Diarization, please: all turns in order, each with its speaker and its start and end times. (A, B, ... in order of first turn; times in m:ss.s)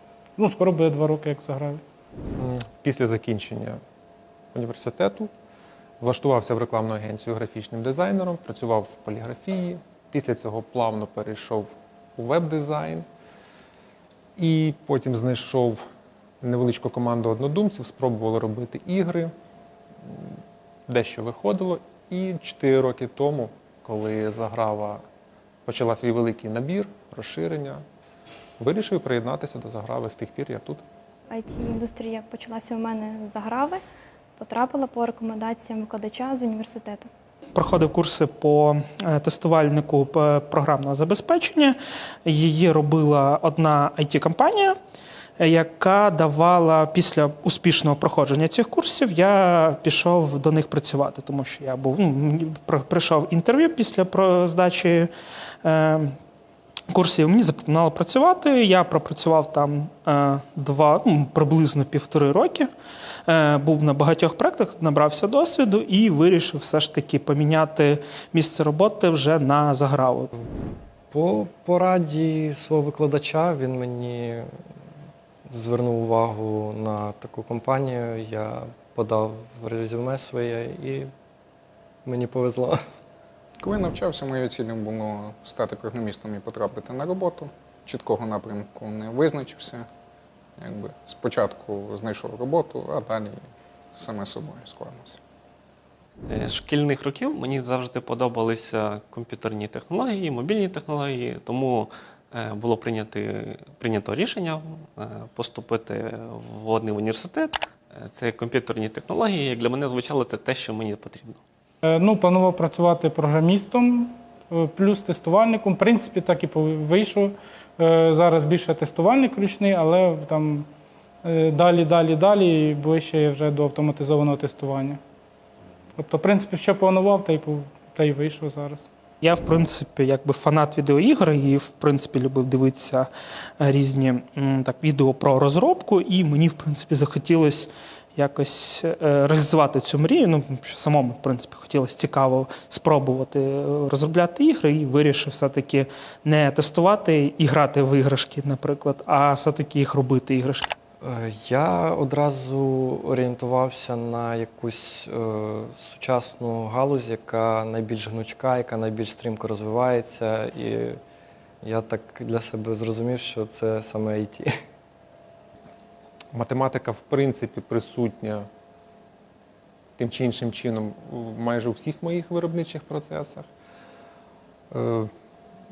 0:00.4-0:01.8 A
0:02.4-0:03.8 B
0:04.5-0:05.3 B
0:06.0-0:13.0 B
0:14.4-0:15.8 B
0:16.4-0:19.3 B
0:20.9-0:25.0 B
0:25.6-0:27.8 B
0:28.6-0:30.8 B
0:31.3-0:33.8 C
0:34.4-0:37.1 C
0:37.5-0:44.8 D
0:45.4-0:55.1 D
0:55.6-0:56.2 D
0:56.9-1:02.7 D
1:03.2-1:10.3 D
1:11.1-1:14.5 E
1:15.5-1:21.1 E
1:22.0-1:22.8 E
1:23.6-1:29.8 F
1:30.6-1:33.4 F
1:33.9-1:35.2 F
1:36.3-1:51.4 G
1:51.8-2:00.7 A
2:01.2-2:05.0 A
2:06.0-2:08.9 A
2:09.2-2:30.7 D
2:31.0-2:41.0 E
2:41.6-2:44.5 E
2:46.3-2:48.4 B
2:50.0-2:53.5 B
2:54.7-2:55.1 B